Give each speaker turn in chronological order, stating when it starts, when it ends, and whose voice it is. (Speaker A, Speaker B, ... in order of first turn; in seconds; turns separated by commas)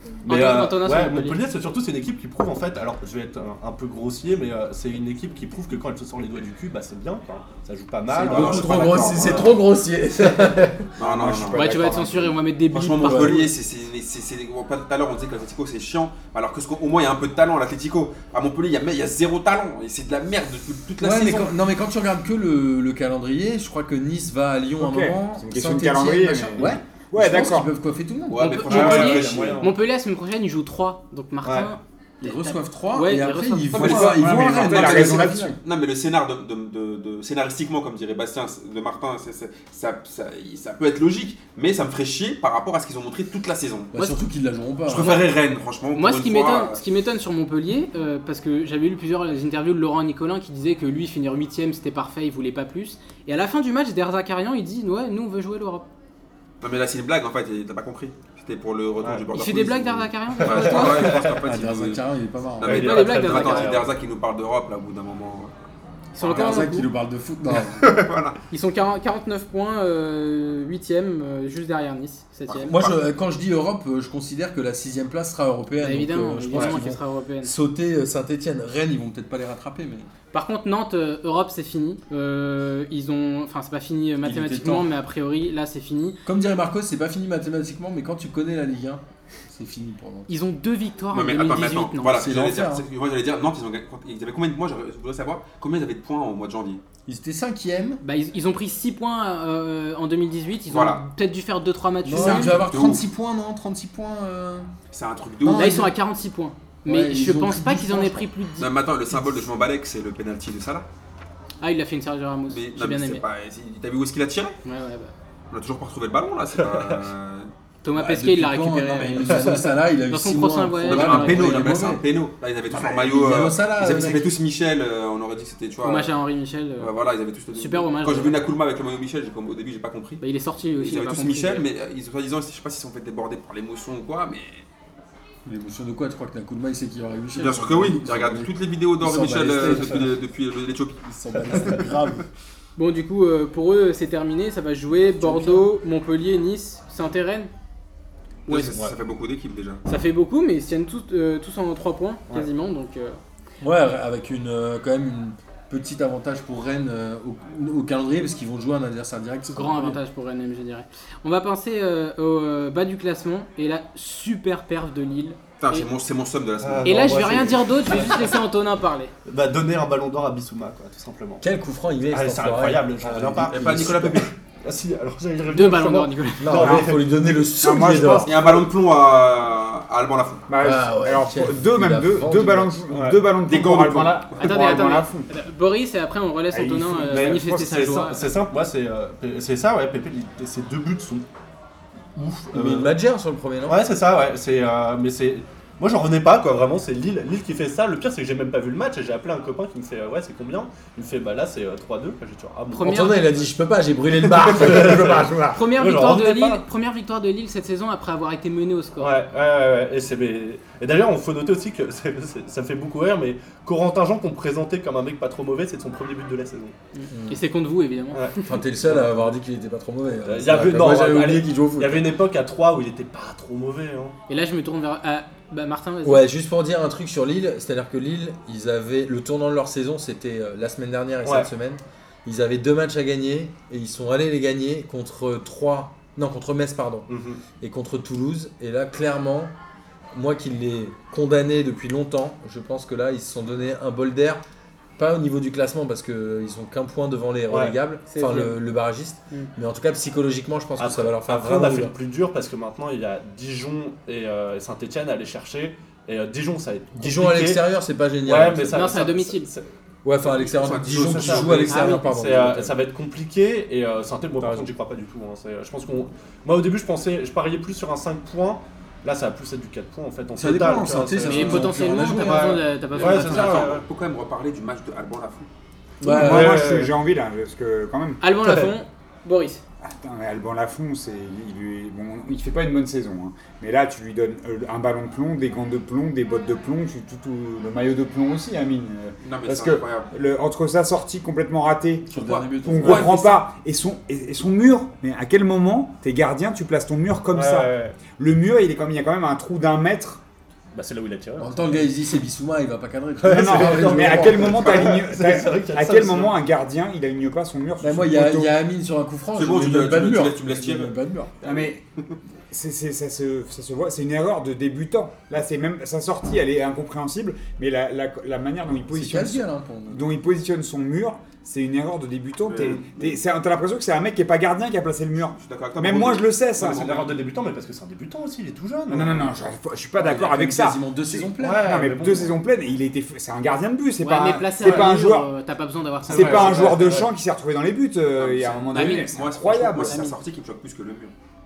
Speaker A: 0.2-1.4, Speaker B: 0.2-9.6, Speaker C: 8.1-9.6, Speaker D: 8.1-9.4, Speaker E: 8.2-10.9, Speaker C: 11.0-11.7, Speaker D: 11.0-12.3, Speaker A: 11.5-13.5, Speaker C: 12.7-21.6, Speaker E: 13.0-13.4, Speaker E: 21.0-29.1, Speaker D: 24.8-27.7, Speaker C: 28.3-29.7, Speaker A: 28.4-34.0, Speaker B: 28.7-29.7, Speaker B: 31.4-31.7, Speaker E: 32.2-35.6, Speaker C: 33.7-43.9, Speaker D: 33.7-35.6, Speaker E: 43.9-45.2, Speaker C: 44.9-46.8, Speaker A: 45.9-55.9, Speaker C: 56.6-62.1, Speaker A: 59.3-61.1, Speaker B: 60.4-61.4, Speaker E: 60.8-62.9, Speaker C: 62.6-65.5, Speaker B: 62.6-63.9, Speaker A: 62.7-63.8, Speaker A: 66.1-66.9, Speaker C: 66.2-66.6, Speaker E: 66.2-67.9, Speaker C: 67.5-68.4, Speaker A: 68.5-72.8, Speaker C: 72.5-73.0, Speaker E: 72.6-80.1, Speaker A: 75.8-77.5, Speaker B: 76.5-76.8, Speaker A: 80.3-86.2, Speaker E: 84.2-84.9, Speaker E: 86.2-90.3, Speaker A: 90.3-92.3, Speaker C: 91.1-96.8, Speaker E: 92.1-92.8, Speaker E: 97.1-98.0, Speaker A: 98.0-102.6, Speaker C: 100.7-101.0, Speaker E: 102.0-104.7, Speaker C: 102.1-103.0, Speaker C: 104.9-105.8, Speaker E: 105.4-105.9, Speaker A: 105.6-108.7, Speaker E: 106.8-108.3, Speaker C: 108.6-110.9, Speaker A: 111.6-113.2, Speaker C: 112.5-114.6, Speaker A: 114.6-115.1, Speaker C: 115.5-117.5, Speaker B: 116.6-117.0, Speaker A: 117.8-121.7, Speaker E: 117.9-122.0, Speaker C: 120.8-126.1, Speaker E: 122.7-124.3, Speaker A: 125.8-126.9, Speaker C: 126.8-130.2, Speaker A: 127.5-128.4, Speaker A: 130.2-131.7, Speaker C: 130.8-134.6, Speaker E: 135.4-140.1, Speaker C: 137.3-141.8, Speaker B: 139.7-139.9, Speaker E: 141.1-142.2, Speaker B: 141.5-141.8, Speaker A: 142.8-147.5, Speaker E: 145.1-145.7, Speaker A: 148.5-148.8, Speaker C: 148.5-149.8, Speaker A: 149.8-153.2, Speaker E: 153.6-160.0, Speaker A: 159.5-165.9, Speaker C: 165.6-167.4, Speaker B: 166.6-168.3, Speaker A: 166.8-169.1, Speaker B: 169.2-171.4, Speaker E: 171.4-174.2, Speaker B: 172.1-177.3, Speaker C: 173.4-174.3, Speaker A: 175.5-176.7, Speaker E: 176.4-178.3, Speaker D: 176.6-178.7, Speaker C: 178.2-180.4, Speaker D: 180.5-185.3, Speaker E: 180.6-182.8, Speaker B: 182.9-183.3, Speaker C: 183.4-184.5, Speaker A: 184.4-188.3, Speaker D: 186.5-187.9, Speaker B: 187.1-191.2, Speaker B: 192.1-192.9, Speaker E: 192.5-193.8, Speaker B: 193.6-203.0, Speaker A: 202.7-203.3, Speaker E: 202.8-205.3, Speaker B: 204.2-206.6, Speaker D: 204.4-205.6, Speaker A: 205.5-209.2, Speaker B: 209.0-216.7, Speaker A: 216.9-218.6, Speaker E: 217.1-217.4, Speaker B: 218.1-219.3, Speaker E: 218.4-222.1, Speaker B: 220.2-224.1, Speaker A: 224.3-226.3, Speaker E: 226.0-239.5, Speaker B: 231.2-231.5, Speaker B: 237.1-237.4, Speaker E: 240.1-244.4, Speaker E: 245.0-251.9, Speaker B: 247.5-247.7, Speaker A: 248.1-248.6, Speaker B: 250.8-257.6, Speaker E: 256.9-258.9, Speaker B: 258.2-259.7, Speaker A: 258.7-259.5, Speaker E: 260.0-262.8, Speaker C: 260.3-261.7, Speaker B: 260.6-273.8, Speaker A: 261.6-262.1, Speaker E: 264.4-264.7, Speaker E: 270.4-272.6, Speaker A: 271.2-273.7, Speaker C: 272.9-275.5, Speaker E: 276.0-276.7, Speaker B: 276.0-276.9, Speaker D: 276.0-278.2, Speaker A: 278.2-279.6, Speaker D: 279.8-300.2, Speaker C: 289.2-290.1, Speaker E: 292.1-293.4, Speaker C: 292.1-293.4, Speaker B: 297.3-298.0, Speaker B: 300.7-301.6, Speaker E: 301.4-304.6, Speaker B: 303.2-306.4, Speaker D: 303.3-308.6, Speaker E: 307.8-311.3, Speaker C: 309.3-312.1, Speaker D: 311.4-311.8, Speaker D: 312.5-326.9, Speaker E: 318.9-320.1, Speaker C: 322.4-323.2, Speaker C: 325.3-327.2, Speaker B: 326.6-329.4, Speaker D: 328.9-335.3, Speaker E: 330.0-331.8, Speaker B: 331.3-332.4, Speaker A: 334.0-336.9, Speaker B: 334.6-334.9, Speaker B: 336.1-337.1, Speaker D: 336.1-340.0, Speaker C: 338.1-341.1, Speaker A: 338.7-339.2, Speaker A: 339.7-340.2